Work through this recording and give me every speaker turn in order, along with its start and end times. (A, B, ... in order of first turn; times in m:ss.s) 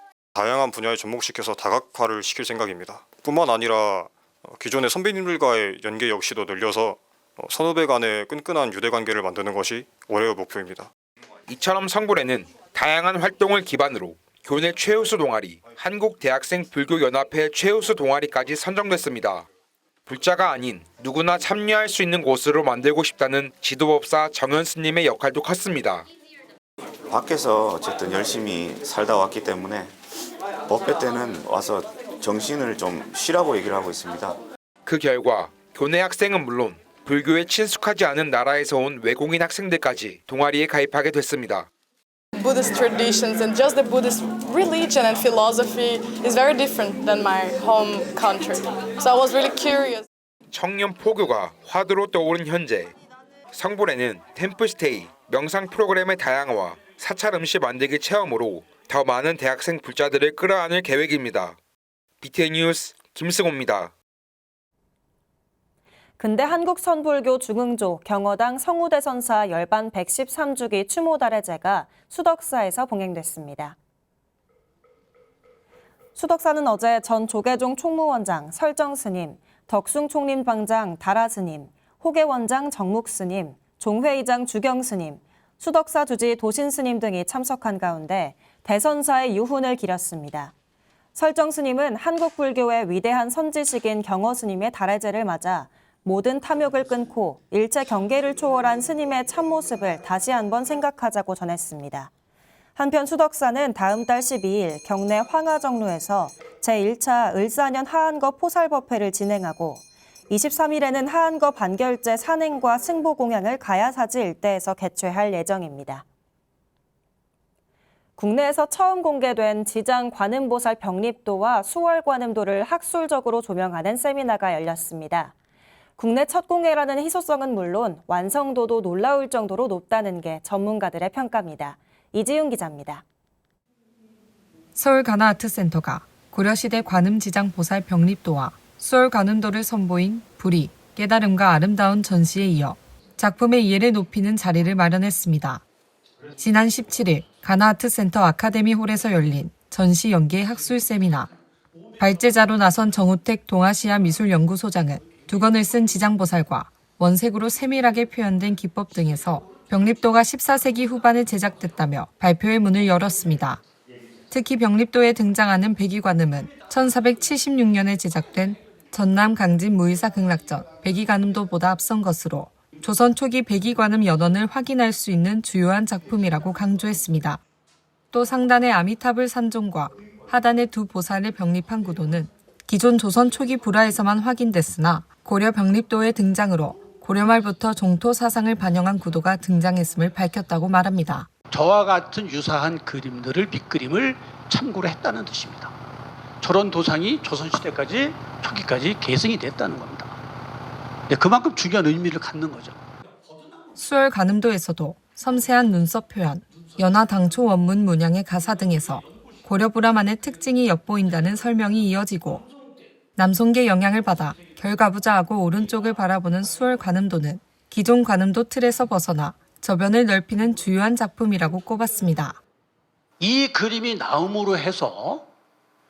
0:00.4-0:10.9 A
0:11.5-0:19.4 B
0:20.1-0:26.0 B
0:27.1-0:29.9 C
0:30.7-0:34.4 C
0:34.8-0:41.7 B
0:42.4-0:50.0 D
0:50.5-0:52.9 B
0:53.5-1:01.6 B
1:02.2-1:03.9 B
1:06.2-1:13.8 E
1:16.2-1:30.5 E
1:31.1-1:42.1 E
1:42.8-1:56.0 E
1:58.2-2:05.3 E
2:06.0-2:13.0 E
2:14.8-2:25.6 F
2:26.4-2:31.3 F
2:32.0-2:43.6 F
2:44.3-2:57.4 F
2:58.1-3:11.3 F
3:11.5-3:15.7 G
3:16.4-3:20.2 G
3:21.1-3:22.8 G
3:23.8-3:32.4 F
3:33.2-3:42.4 F
3:43.2-3:45.3 G